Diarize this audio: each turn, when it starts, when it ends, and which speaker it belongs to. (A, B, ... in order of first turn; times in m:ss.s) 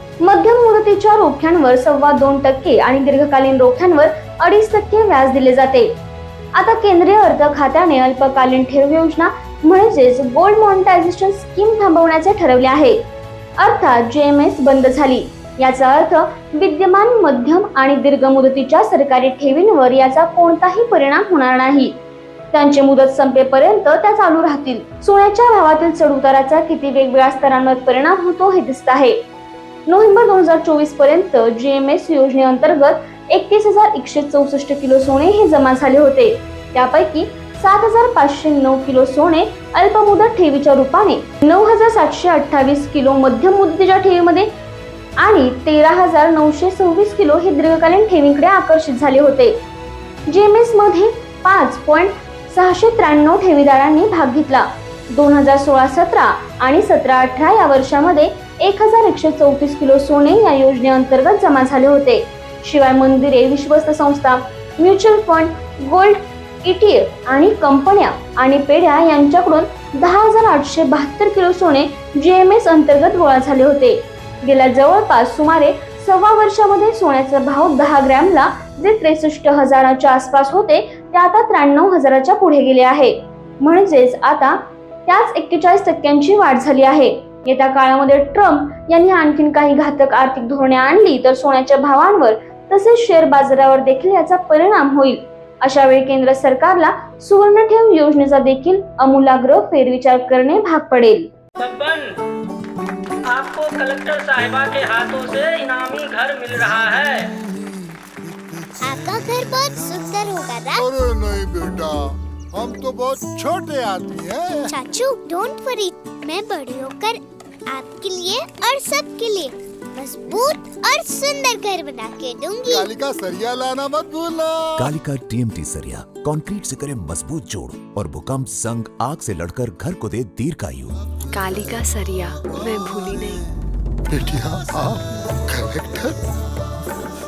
0:00.2-0:05.9 A
0:06.5-0:13.0 A
0:13.6-0:22.0 A
0:22.5-0:29.2 A
0:29.9-0:44.5 A
0:45.2-0:49.6 A
0:50.3-1:41.3 A
1:41.6-1:42.2 B
1:43.2-1:47.4 B
1:48.8-1:50.8 C
1:50.7-1:54.8 D
1:54.7-2:02.9 C
2:02.6-2:04.9 D
2:04.8-2:11.0 E
2:11.3-2:13.4 F
2:14.1-2:16.2 D